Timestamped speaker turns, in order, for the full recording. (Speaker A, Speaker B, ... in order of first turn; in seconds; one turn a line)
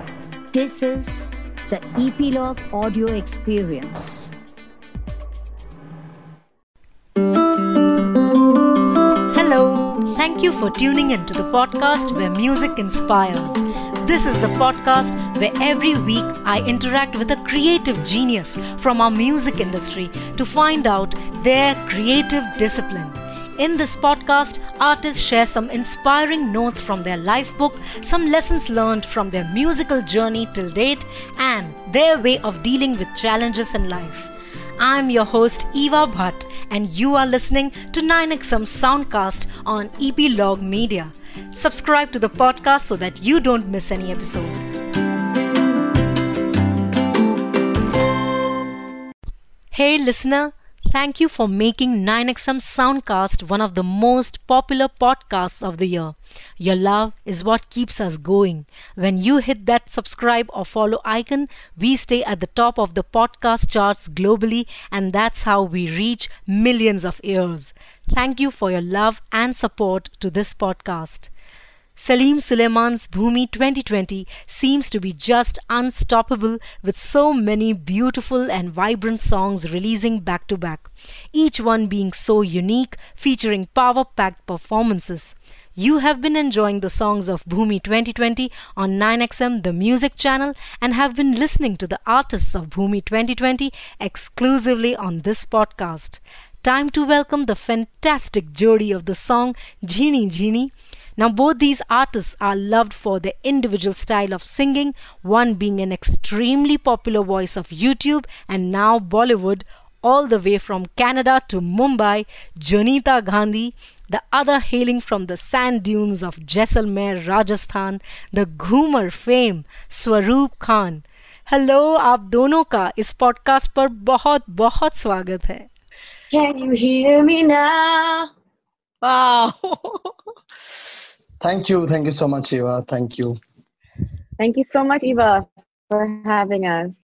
Speaker A: 0.5-4.3
Speaker B: 9.3-44.6
Speaker B: 49.7-71.3
Speaker B: 72.0-125.7
Speaker C: 126.3-128.3
Speaker B: 129.0-130.3
Speaker D: 131.4-133.4
Speaker C: 134.4-136.9